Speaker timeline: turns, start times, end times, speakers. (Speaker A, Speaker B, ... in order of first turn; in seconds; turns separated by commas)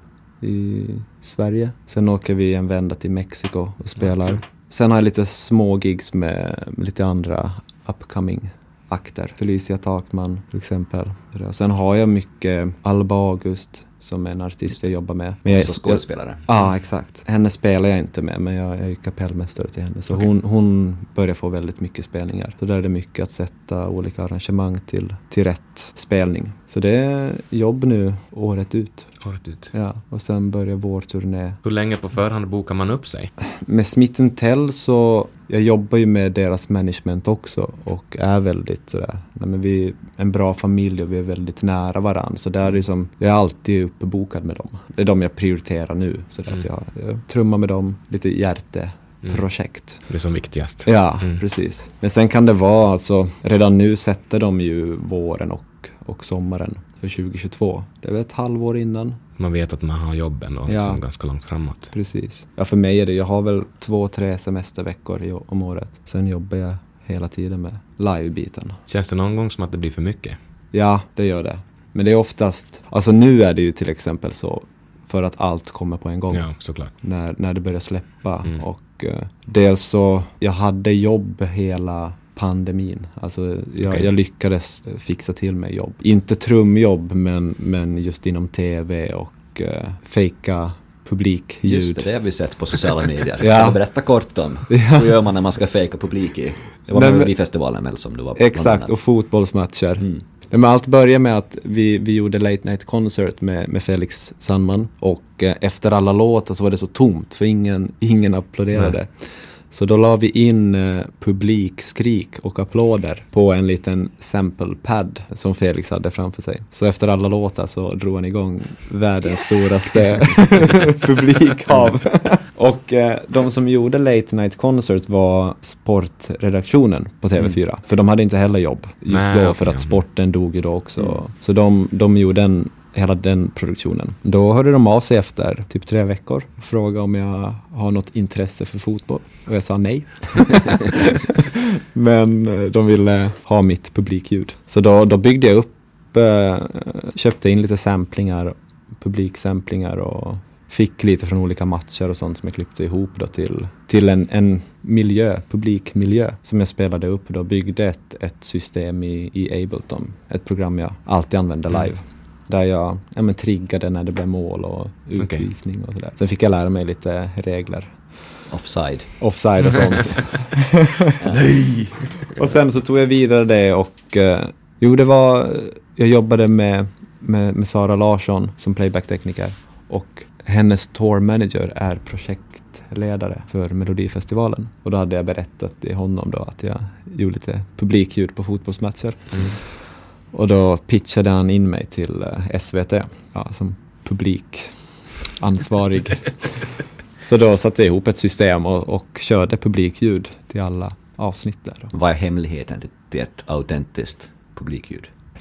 Speaker A: 0.4-29.1, Speaker B: 15.4-16.5, Speaker C: 29.2-29.7, Speaker A: 29.7-31.6, Speaker C: 31.6-33.3, Speaker A: 33.5-50.1, Speaker C: 50.1-51.4, Speaker A: 50.8-59.2, Speaker C: 59.4-61.9, Speaker A: 60.7-61.0, Speaker A: 61.9-68.8, Speaker C: 68.9-70.4, Speaker A: 70.7-92.1, Speaker C: 76.3-76.9, Speaker C: 83.8-84.1, Speaker B: 91.6-98.9, Speaker A: 93.4-93.8, Speaker A: 94.7-95.1, Speaker A: 96.9-97.3, Speaker A: 98.3-168.5, Speaker C: 129.1-130.0, Speaker C: 165.2-165.5, Speaker B: 168.5-169.2, Speaker A: 169.2-171.2, Speaker B: 171.2-171.6, Speaker C: 171.4-172.2, Speaker A: 172.2-201.9, Speaker C: 189.3-189.6, Speaker B: 201.9-205.1